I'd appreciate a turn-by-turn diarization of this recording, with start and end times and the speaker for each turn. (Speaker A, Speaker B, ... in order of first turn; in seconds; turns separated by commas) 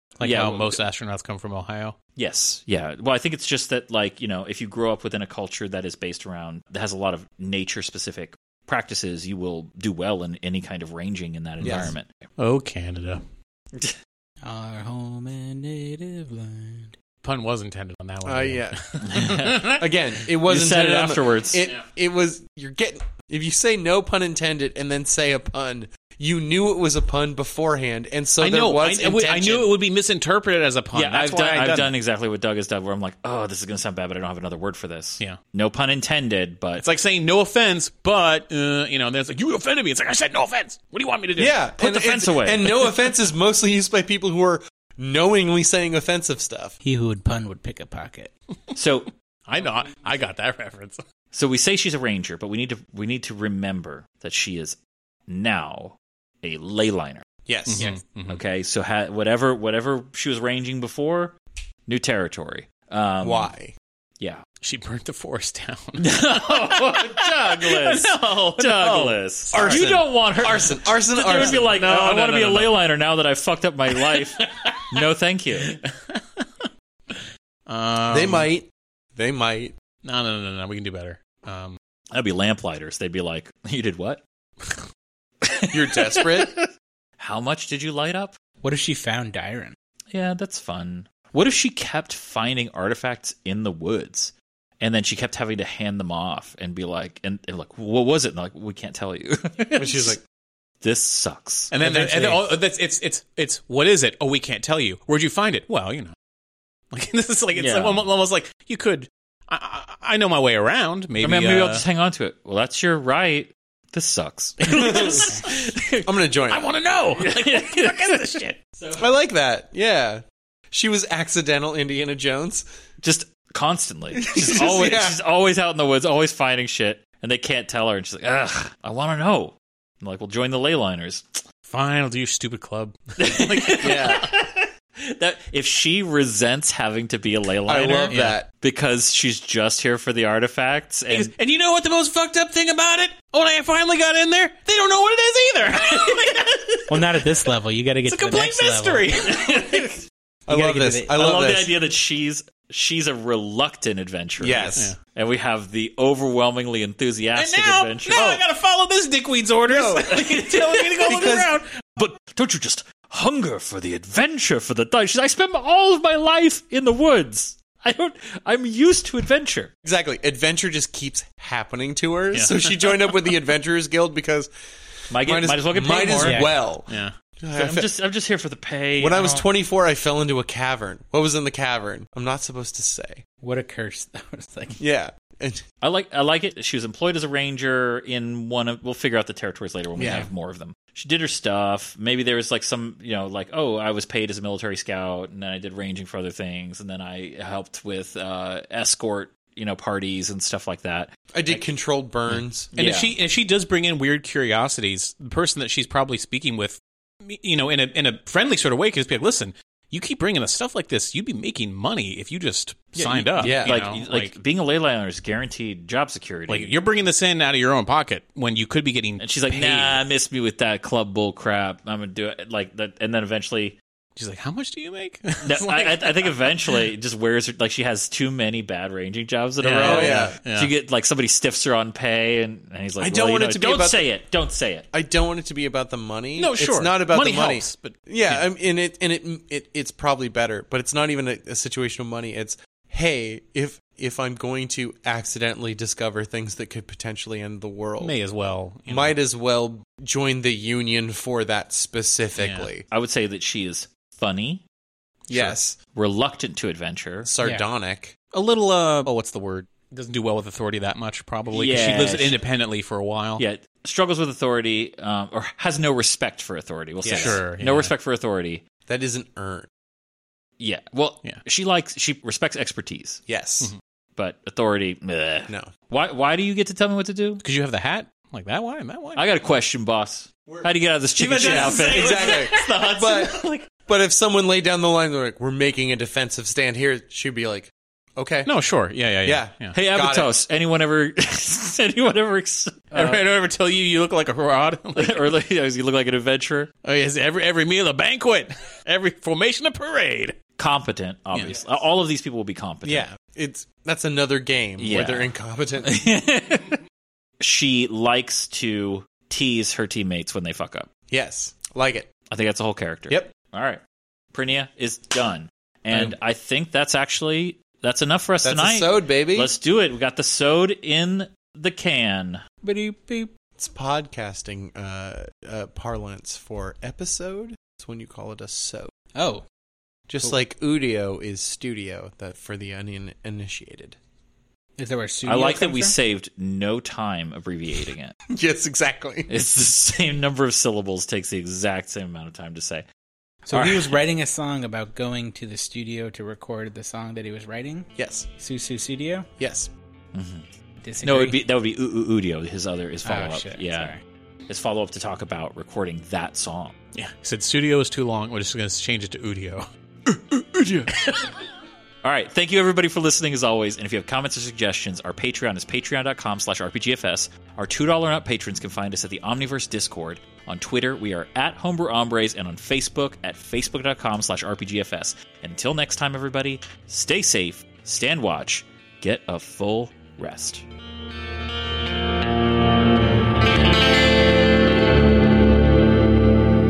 Speaker A: 0.2-1.9, Speaker B: 0.2-0.8, Speaker B: 2.2-12.1, Speaker C: 11.6-11.9, Speaker A: 11.6-13.2, Speaker D: 14.4-16.9, Speaker A: 17.2-19.9, Speaker C: 18.2-29.8, Speaker B: 19.1-19.7, Speaker B: 20.4-21.7, Speaker A: 28.4-31.9, Speaker B: 30.9-36.9, Speaker A: 36.8-41.6, Speaker C: 41.4-46.8, Speaker B: 41.8-43.0, Speaker D: 46.8-48.3, Speaker B: 48.8-49.1, Speaker A: 49.5-51.0, Speaker B: 51.3-57.2, Speaker C: 57.5-57.9, Speaker A: 57.7-58.4, Speaker B: 58.3-63.5, Speaker C: 63.2-63.7, Speaker A: 64.6-70.0, Speaker B: 66.0-75.7, Speaker C: 69.5-71.7, Speaker A: 71.2-72.7, Speaker A: 74.0-75.0, Speaker A: 75.6-78.5, Speaker C: 78.1-79.7, Speaker A: 80.0-81.8, Speaker B: 82.1-84.2, Speaker B: 85.4-86.7, Speaker C: 85.7-86.6, Speaker B: 87.2-88.3, Speaker D: 88.6-89.7, Speaker B: 90.1-100.2, Speaker C: 99.8-100.2, Speaker B: 100.8-101.8, Speaker A: 101.7-106.1, Speaker D: 101.8-102.4, Speaker A: 106.9-111.8, Speaker B: 107.5-108.1, Speaker B: 111.2-116.1, Speaker A: 114.6-115.4, Speaker C: 114.7-115.4, Speaker C: 116.0-116.7, Speaker A: 116.5-118.6, Speaker B: 117.1-119.0, Speaker C: 119.0-122.6, Speaker B: 123.0-131.4, Speaker C: 124.1-125.1, Speaker A: 131.6-134.2, Speaker B: 133.2-141.3, Speaker C: 133.8-134.3, Speaker C: 137.7-138.5, Speaker A: 138.1-138.4, Speaker A: 141.1-147.2, Speaker D: 146.9-149.1, Speaker A: 148.1-149.9, Speaker B: 149.2-150.0, Speaker C: 150.5-151.7, Speaker D: 150.5-151.1, Speaker B: 151.1-158.2, Speaker C: 154.4-154.9, Speaker A: 157.3-161.7, Speaker C: 158.1-158.4, Speaker C: 159.7-160.2, Speaker B: 160.1-161.2, Speaker C: 161.1-161.5, Speaker B: 161.9-169.7, Speaker C: 169.8-174.5, Speaker A: 172.3-173.1, Speaker C: 175.1-177.9, Speaker B: 175.1-176.5, Speaker D: 176.2-176.5, Speaker A: 176.9-177.2, Speaker B: 177.5-179.4, Speaker C: 179.0-183.2, Speaker D: 183.4-184.8, Speaker C: 184.8-185.6, Speaker B: 185.8-201.1, Speaker C: 189.9-190.3, Speaker C: 201.3-202.7, Speaker A: 202.3-214.3, Speaker B: 202.8-203.1, Speaker B: 212.9-216.7, Speaker C: 213.4-213.8, Speaker A: 216.5-220.0, Speaker B: 219.2-223.8, Speaker A: 224.2-226.8, Speaker B: 225.4-234.9, Speaker A: 229.6-230.7, Speaker C: 229.8-230.4, Speaker C: 233.0-234.0, Speaker C: 234.9-248.2, Speaker A: 236.4-238.4, Speaker A: 248.0-249.1, Speaker C: 248.9-252.9, Speaker A: 252.4-252.7, Speaker B: 252.9-254.6, Speaker B: 255.3-257.3, Speaker C: 255.3-255.8, Speaker C: 257.2-258.2, Speaker A: 258.3-263.4, Speaker B: 261.5-262.4, Speaker B: 263.4-268.6, Speaker C: 267.1-267.4, Speaker A: 267.1-267.9, Speaker C: 268.9-269.7, Speaker B: 270.6-273.2, Speaker C: 273.3-273.7, Speaker B: 274.2-277.4, Speaker A: 277.4-279.2, Speaker B: 279.2-282.5, Speaker A: 281.2-283.7, Speaker C: 281.4-288.5, Speaker A: 288.4-289.8, Speaker C: 289.2-290.3, Speaker B: 289.7-293.2, Speaker A: 292.9-295.3, Speaker B: 294.9-296.7, Speaker A: 296.8-300.4, Speaker B: 300.6-303.1, Speaker A: 301.3-301.6, Speaker C: 302.8-305.9, Speaker B: 304.8-305.3, Speaker B: 305.8-306.8, Speaker B: 307.4-310.9, Speaker C: 311.1-312.1, Speaker B: 312.3-313.8, Speaker B: 314.3-322.4, Speaker C: 318.4-319.5, Speaker D: 322.6-323.3, Speaker C: 323.6-328.9, Speaker D: 329.1-329.4, Speaker C: 330.1-334.0, Speaker D: 334.8-335.9, Speaker B: 335.3-338.2, Speaker C: 338.3-339.3, Speaker B: 339.3-342.8, Speaker D: 343.5-349.3, Speaker B: 343.5-343.9, Speaker C: 347.9-348.3, Speaker C: 349.4-349.7, Speaker B: 350.1-350.5, Speaker D: 350.8-351.4, Speaker B: 351.0-353.9, Speaker D: 353.0-354.0, Speaker B: 354.5-356.7, Speaker A: 356.9-359.7, Speaker B: 360.1-361.3, Speaker B: 362.0-380.6